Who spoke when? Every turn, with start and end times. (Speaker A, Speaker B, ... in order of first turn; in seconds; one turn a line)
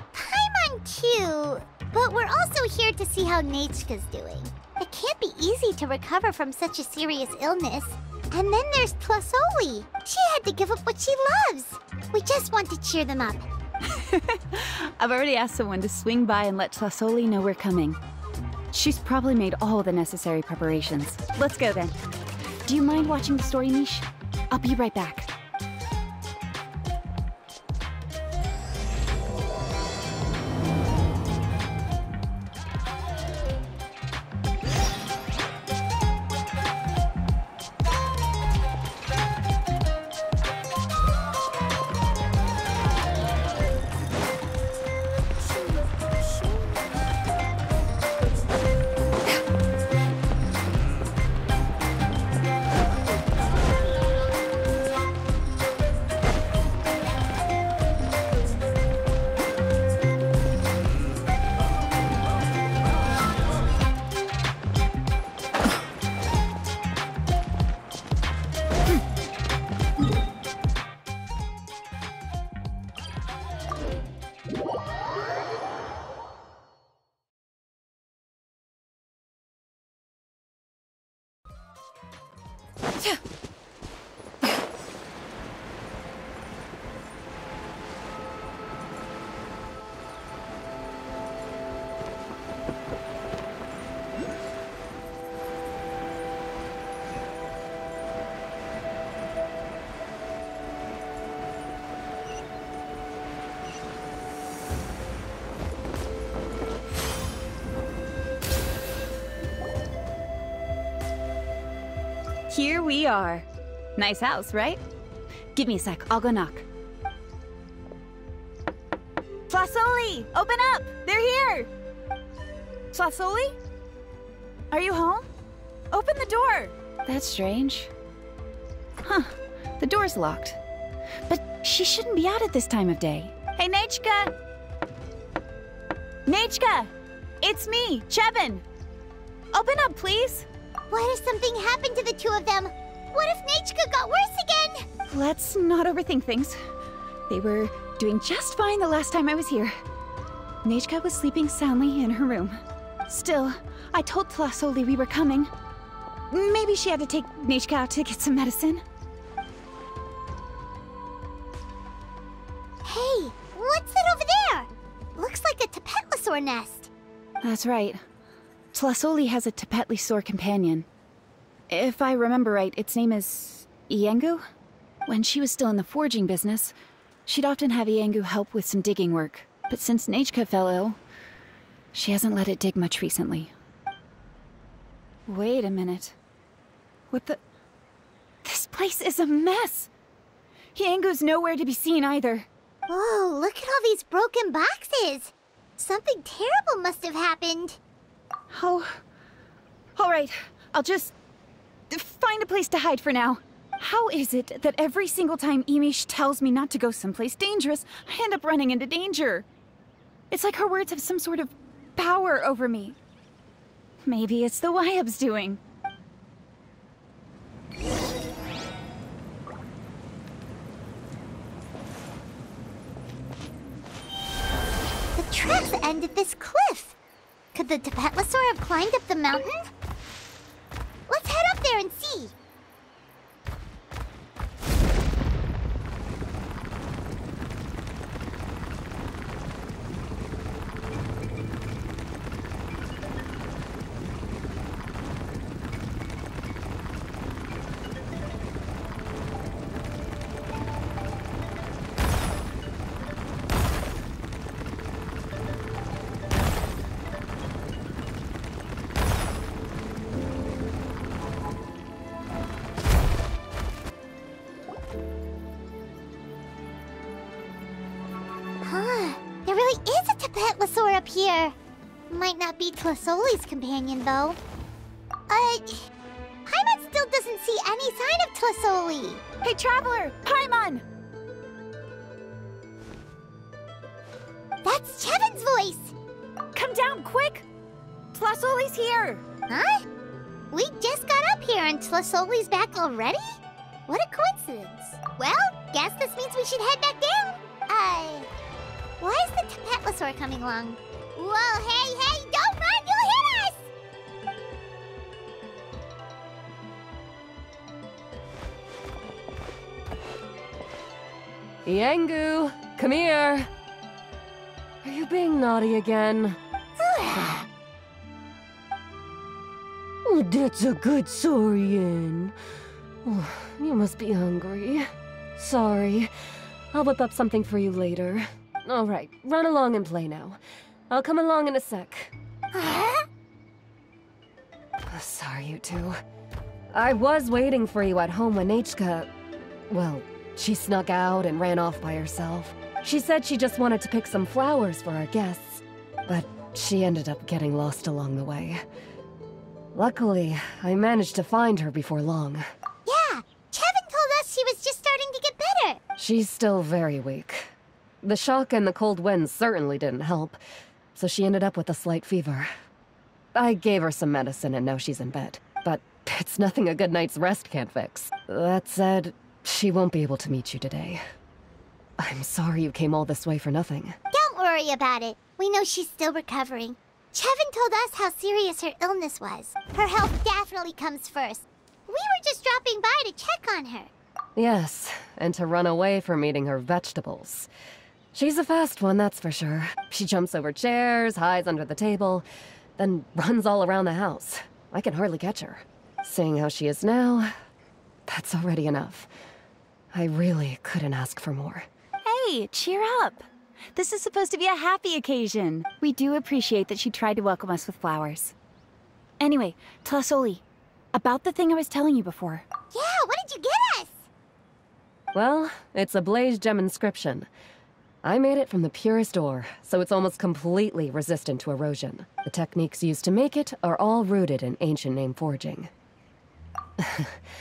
Speaker A: 0.1-13.5
Speaker B: 13.9-18.0
Speaker B: 18.7-22.0
Speaker B: 22.6-25.3
Speaker B: 112.5-114.8
Speaker B: 115.5-116.7
Speaker B: 119.5-121.7
Speaker B: 122.9-123.5
Speaker B: 124.7-125.3
Speaker B: 125.9-127.9
Speaker B: 129.0-130.6
Speaker B: 131.3-134.3
Speaker B: 136.2-138.6
Speaker B: 139.5-140.5
Speaker A: 140.9-144.9
Speaker B: 145.0-146.6
Speaker B: 147.3-149.8
Speaker B: 150.6-155.5
Speaker B: 156.3-158.8
Speaker A: 162.8-166.9
Speaker B: 167.4-168.0
Speaker B: 168.7-170.9
Speaker B: 171.7-174.4
Speaker B: 175.1-181.0
Speaker B: 181.9-183.5
Speaker B: 185.2-186.2
Speaker B: 187.1-187.4
Speaker B: 188.4-189.9
Speaker B: 190.7-192.5
Speaker A: 192.9-197.8
Speaker B: 198.5-199.0
Speaker B: 199.9-201.1
Speaker B: 201.9-209.4
Speaker B: 210.3-213.0
Speaker B: 214.0-215.6
Speaker A: 225.2-226.9
Speaker A: 227.5-229.7
Speaker A: 231.1-232.3
Speaker A: 268.6-271.5
Speaker A: 272.1-274.4
Speaker A: 275.3-275.9
Speaker A: 276.4-279.2
Speaker B: 279.4-280.8
Speaker A: 284.6-285.9
Speaker B: 286.5-287.4
Speaker B: 288.1-289.2
Speaker A: 289.5-289.8
Speaker A: 290.5-298.3
Speaker A: 299.0-303.7
Speaker C: 311.6-313.5
Speaker C: 314.8-316.4
Speaker A: 316.8-317.4
Speaker C: 320.0-322.4
Speaker C: 323.0-326.1
Speaker C: 326.7-330.4
Speaker C: 330.9-332.1
Speaker A: 332.5-333.1
Speaker C: 334.9-336.0
Speaker C: 336.7-339.1
Speaker C: 339.7-348.6
Speaker C: 349.7-352.4
Speaker A: 352.9-355.8
Speaker C: 356.0-360.4
Speaker C: 360.9-362.5
Speaker C: 363.3-371.0
Speaker C: 372.0-373.9
Speaker A: 374.1-383.9
Speaker C: 384.4-387.5
Speaker C: 388.1-392.2
Speaker C: 392.8-397.3
Speaker C: 398.1-399.1
Speaker C: 399.9-401.7
Speaker B: 402.0-408.3
Speaker B: 409.2-412.4
Speaker A: 412.7-414.1
Speaker C: 415.1-417.3
Speaker C: 418.0-425.7
Speaker C: 426.8-427.2